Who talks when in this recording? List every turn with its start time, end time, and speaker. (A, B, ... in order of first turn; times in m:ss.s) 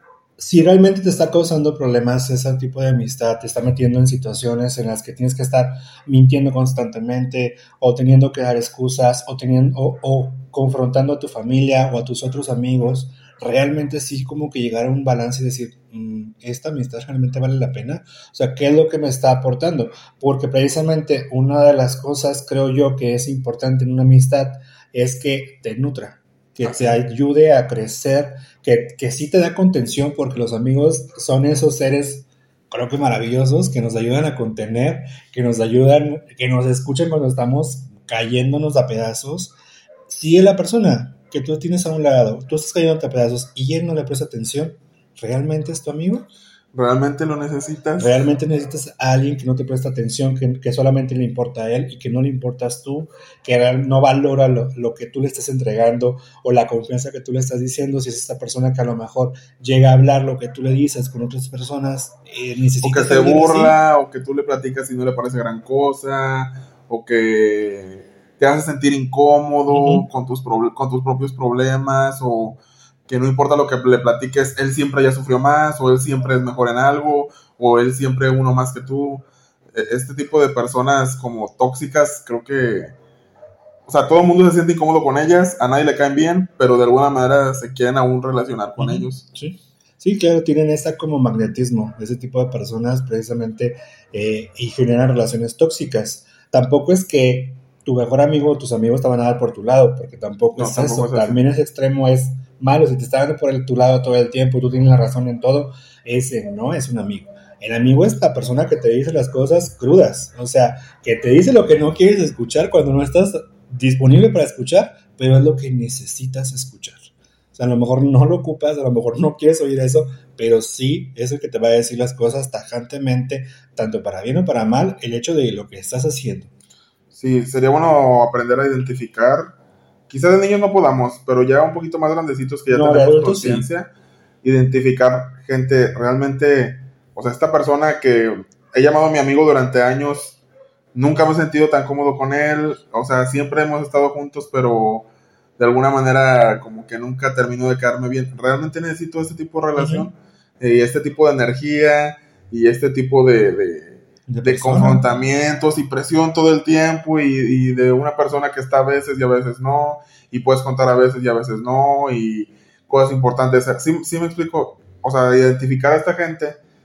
0:00.4-0:39.5 A
0:26.6-0:26.9 B
0:40.1-0:46.3 A
0:46.7-0:48.2 B
0:48.0-1:03.8 A
1:02.8-1:22.9 B
1:09.7-1:10.1 A
1:23.9-1:29.2 B
1:28.8-2:06.5 A
1:40.6-1:41.4 B
2:07.1-2:09.5 B
2:10.1-2:13.9 B
2:12.7-2:13.7 A
2:14.4-2:20.4 B
2:20.9-2:25.1 B
2:25.6-2:46.6 B
2:29.8-2:30.1 A
2:34.3-2:35.0 A